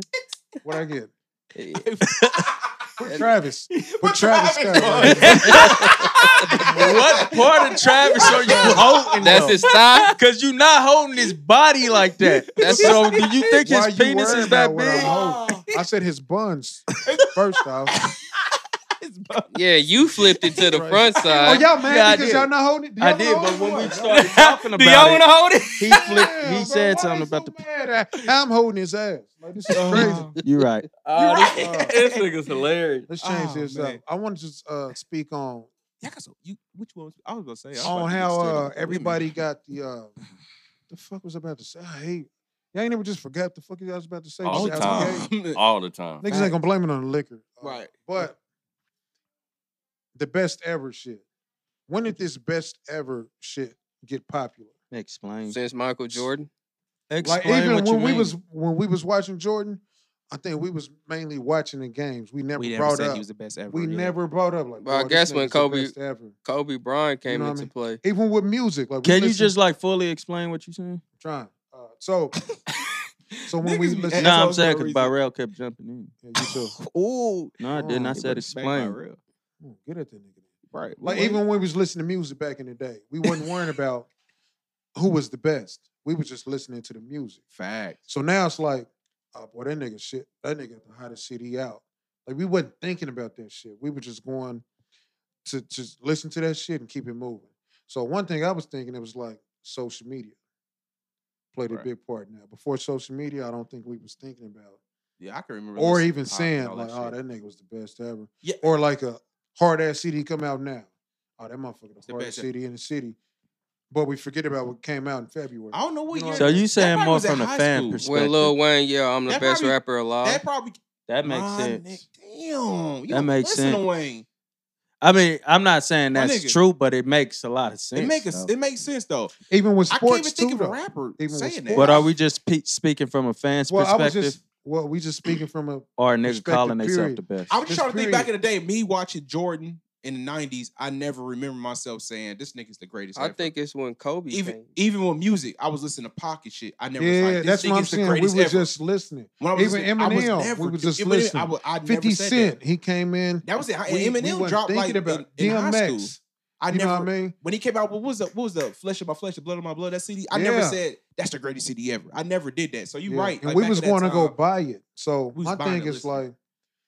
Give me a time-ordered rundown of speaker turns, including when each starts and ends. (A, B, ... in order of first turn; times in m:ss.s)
0:00.6-0:01.1 A
0:01.5-0:01.8 B
0:01.7-0:09.6 C
0:02.1-0:02.4 D
0:03.0-0:05.7 A
0:05.3-0:05.8 D
0:05.5-0:06.1 B
0:06.6-0:09.6 D
0:06.7-0:07.0 A
0:08.2-0:09.0 A
0:09.2-0:10.1 B
0:10.1-0:15.1 D
0:12.2-0:13.7 C
0:12.6-0:13.0 B
0:13.6-0:17.9 A
0:14.2-0:15.7 C
0:17.0-0:18.2 C
0:19.0-0:19.5 C
0:19.5-0:21.6 B
0:20.2-0:20.5 C
0:20.7-0:24.3 A
0:21.2-0:21.6 C
0:21.8-0:25.2 D
0:24.1-0:25.9 E
0:25.8-0:27.5 D
0:25.9-0:30.3 A
0:29.7-0:30.4 C
0:30.4-0:30.8 D
0:31.0-0:33.1 E
0:31.1-0:32.3 C
0:31.6-0:32.0 A
0:33.1-0:35.7 A
0:33.2-0:34.0 C
0:36.0-0:39.3 C
0:37.8-0:40.1 A
0:40.9-0:45.3 A
0:44.4-0:46.2 E
0:44.5-0:45.6 C
0:46.2-0:48.4 A
0:47.6-0:48.2 C
0:50.1-0:51.2 A
0:51.9-0:54.7 A
0:54.9-0:55.6 D
0:55.5-0:56.5 B
0:57.1-0:58.3 D
0:57.2-1:06.4 A
1:02.6-1:04.2 C
1:04.8-1:05.9 B
1:06.4-1:08.0 B
1:07.3-1:09.5 A
1:09.0-1:11.0 D
1:11.2-1:12.4 A
1:12.7-1:15.1 C
1:13.5-1:14.5 A
1:14.2-1:16.1 D
1:16.2-1:16.8 A
1:16.4-1:17.6 C
1:17.6-1:19.0 D
1:17.7-1:18.2 A
1:18.2-1:19.2 C
1:19.6-1:20.4 A
1:20.7-1:21.4 C
1:21.0-1:24.1 A
1:25.0-1:27.4 A
1:27.5-1:28.0 C
1:28.1-1:34.6 A
1:35.4-1:40.4 A
1:41.5-1:44.8 A
1:45.2-1:47.2 C
1:45.8-1:53.2 A
1:52.0-1:52.5 C
1:53.9-1:56.7 A
1:55.7-1:58.0 C
1:56.3-1:58.5 D
1:58.0-2:00.4 B
1:59.3-2:04.2 C
2:01.1-2:02.0 D
2:03.1-2:03.8 D
2:05.0-2:08.5 D
2:06.1-2:06.6 C
2:07.9-2:09.3 C
2:09.5-2:12.1 A
2:09.9-2:12.1 C
2:11.7-2:14.4 D
2:13.7-2:18.3 A
2:16.0-2:17.5 D
2:17.5-2:23.5 C
2:23.1-2:24.7 B
2:24.3-2:28.7 C
2:27.0-2:36.2 A
2:29.4-2:32.6 C
2:33.4-2:44.3 C
2:36.7-2:37.4 A
2:40.3-2:40.8 A
2:43.1-2:46.3 A
2:45.3-2:46.2 C